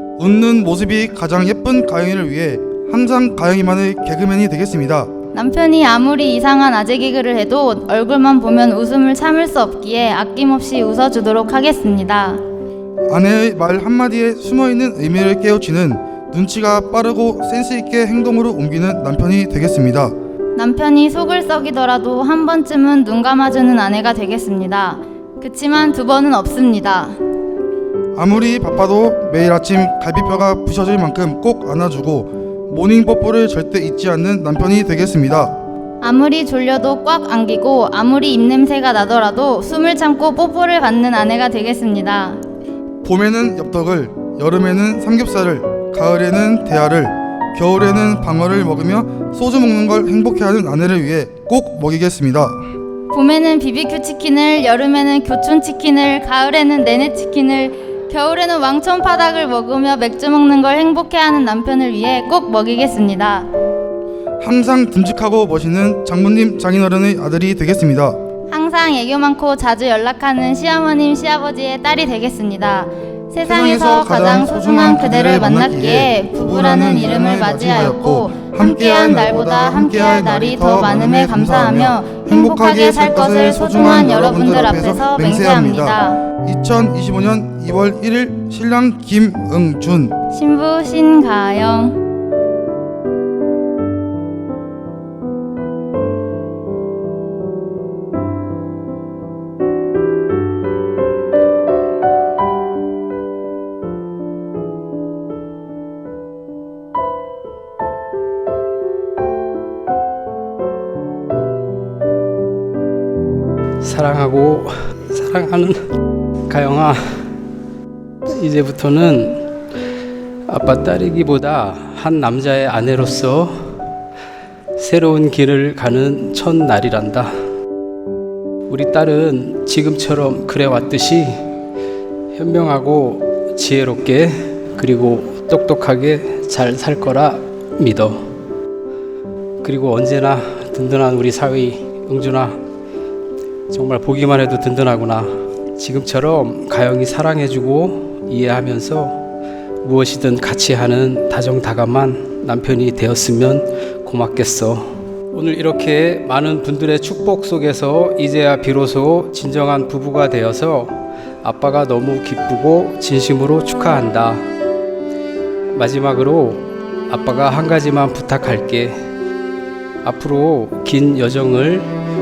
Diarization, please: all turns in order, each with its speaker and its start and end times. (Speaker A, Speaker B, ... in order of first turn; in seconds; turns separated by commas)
Speaker A: 0.2-5.1, Speaker B: 5.3-12.4, Speaker A: 13.1-20.1, Speaker B: 20.6-27.2, Speaker A: 28.1-35.5, Speaker B: 36.0-42.4, Speaker A: 43.0-52.6, Speaker B: 53.1-63.5, Speaker A: 64.4-68.2, Speaker B: 68.5-86.2, Speaker A: 73.4-90.2, Speaker B: 90.3-92.0, Speaker C: 113.8-115.8, Speaker C: 116.5-117.0, Speaker C: 118.3-119.5, Speaker C: 120.5-123.5, Speaker C: 124.8-127.3, Speaker C: 128.7-131.4, Speaker C: 132.3-138.3, Speaker C: 139.6-142.6, Speaker C: 143.7-149.2, Speaker C: 149.8-164.5, Speaker C: 165.7-169.0, Speaker C: 170.0-171.9